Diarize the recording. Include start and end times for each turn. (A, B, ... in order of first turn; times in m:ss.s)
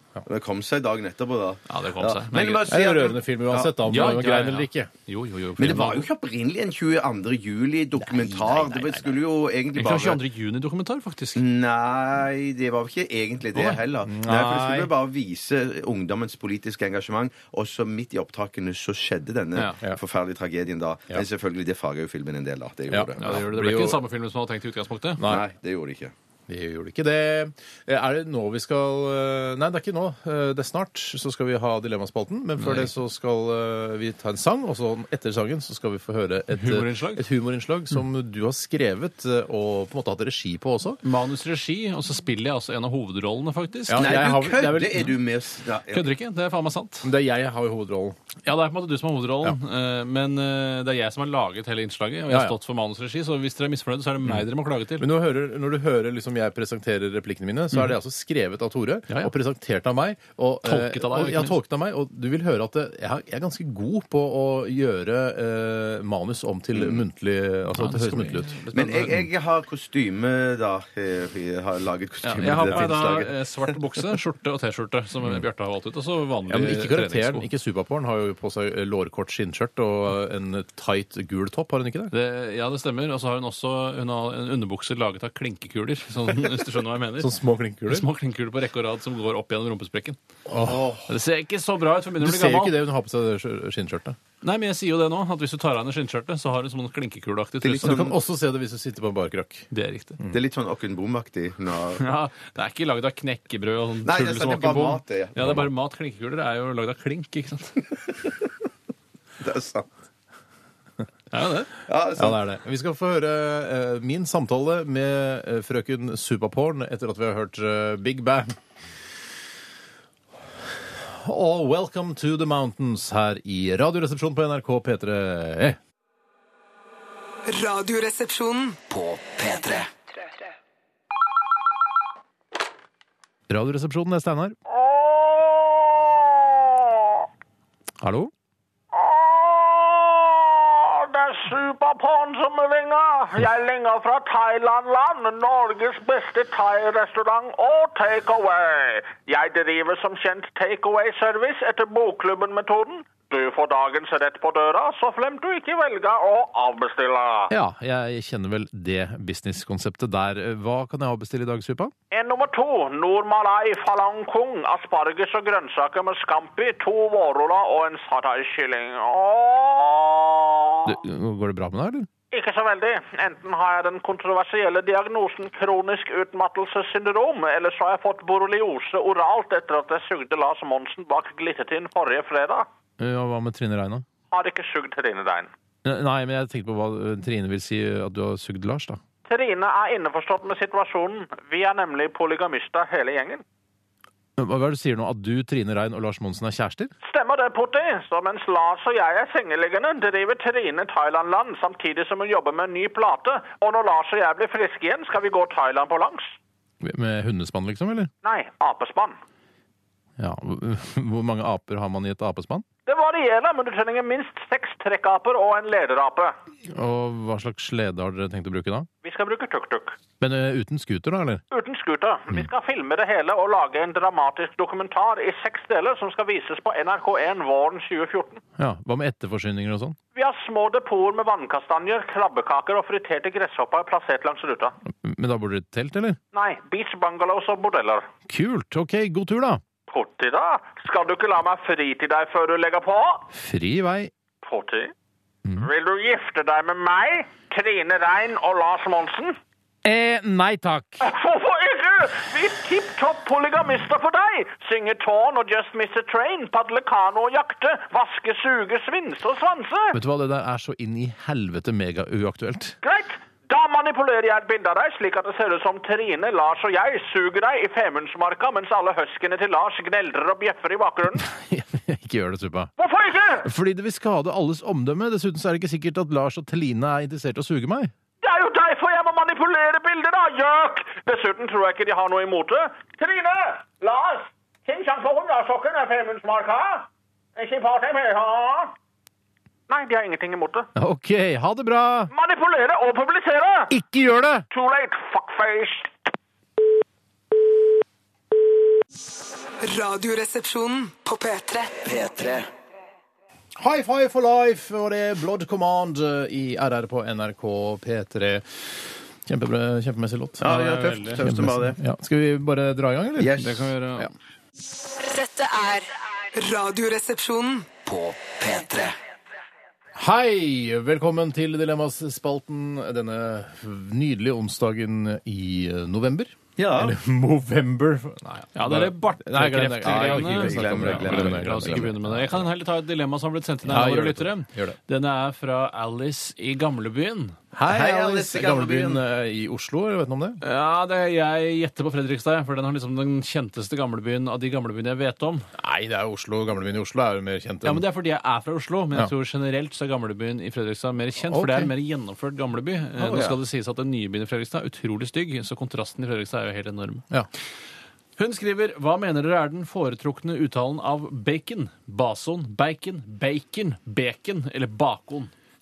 0:00.2-0:04.1 A
0:01.7-0:02.7 B
0:02.7-0:04.9 C
0:03.9-0:06.0 B
0:05.6-0:10.2 A
0:08.0-0:09.2 C
0:09.7-0:11.4 B
0:11.4-0:23.4 A
0:14.0-0:14.9 C
0:22.9-0:24.0 C
0:23.2-0:25.2 B
0:25.2-0:25.4 C
0:25.2-0:26.1 A
0:26.5-0:41.0 C
0:32.6-0:32.9 B
0:36.5-0:37.2 B
0:41.0-0:44.2 B
0:43.9-0:45.2 C
0:44.0-0:46.1 A
0:45.9-0:47.1 B
0:47.0-0:48.2 C
0:48.4-0:55.1 B
0:52.3-0:52.6 C
0:55.0-1:08.6 C
1:00.6-1:01.6 B
1:06.7-1:07.0 A
1:07.7-1:09.2 B
1:08.7-1:13.3 A
1:12.2-1:17.4 B
1:12.4-1:13.0 C
1:16.5-1:22.1 C
1:22.1-1:27.3 B
1:27.2-1:28.1 C
1:27.9-1:30.2 B
1:30.5-1:30.9 C
1:30.6-1:31.1 A
1:31.1-1:32.8 B
1:32.2-1:34.2 C
1:34.4-1:38.0 B
1:37.6-1:38.2 A
1:37.8-1:40.4 C
1:39.7-1:40.2 B
1:40.3-1:42.1 A
1:42.0-1:47.8 B
1:44.0-1:45.4 A
1:45.4-1:45.7 C
1:49.4-1:49.9 A
1:51.3-1:51.7 B
1:51.9-1:52.4 A
1:52.2-1:58.5 C
2:00.9-2:05.8 C
2:07.4-2:08.8 D
2:08.8-2:09.9 E
2:13.5-2:14.6 C
2:14.7-2:17.3 F
2:18.0-2:18.3 C
2:18.9-2:37.5 F
2:37.5-2:41.9 C
2:42.1-2:50.9 F
2:50.8-2:52.1 C
2:52.3-3:02.7 F
3:03.0-3:04.0 C
3:04.3-3:05.5 F
3:05.8-3:09.0 C
3:09.3-3:13.4 F
3:14.4-3:16.9 C
3:17.0-3:26.4 F
3:26.8-3:28.1 C
3:28.2-3:29.2 F
3:30.2-3:32.6 C
3:32.8-3:36.4 F
3:36.7-3:38.9 C
3:39.0-3:40.0 F
3:40.2-3:41.4 C
3:41.5-3:48.4 F
3:48.6-3:50.0 C
3:50.1-3:54.7 F
3:55.0-3:56.2 C
3:56.3-3:58.1 F
3:58.3-3:59.6 C
3:59.9-4:03.3 F
4:03.3-4:04.1 C
4:04.4-4:04.9 F
4:05.4-4:05.7 C
4:05.6-4:09.4 F
4:09.8-4:11.1 C
4:11.0-4:20.0 F
4:19.9-4:22.8 C
4:22.8-4:31.2 F
4:31.2-4:32.7 C
4:32.8-4:33.5 F
4:33.4-4:37.9 C
4:38.2-4:48.7 F
4:49.7-4:50.7 F
4:50.8-4:52.1 C
4:52.1-4:53.7 F
4:53.7-4:54.4 C
4:54.5-4:55.9 F
4:59.6-5:01.7 D
5:01.7-5:02.5 E
5:03.6-5:13.4 C
5:10.4-5:11.8 A
5:10.4-5:11.2 B
5:13.2-5:13.6 A
5:13.4-5:14.1 B
5:15.0-5:17.7 D
5:17.7-5:19.0 E
5:20.0-5:32.4 C
5:26.6-5:27.0 A
5:28.5-5:37.4 B
5:29.8-5:31.9 A
5:33.6-5:34.8 C
5:37.5-5:40.4 C
5:37.7-5:39.0 A
5:40.4-5:45.5 B
5:45.6-5:47.8 C
5:47.6-5:57.0 B
5:51.2-5:51.7 C
5:53.0-5:53.4 A
5:58.2-6:05.3 B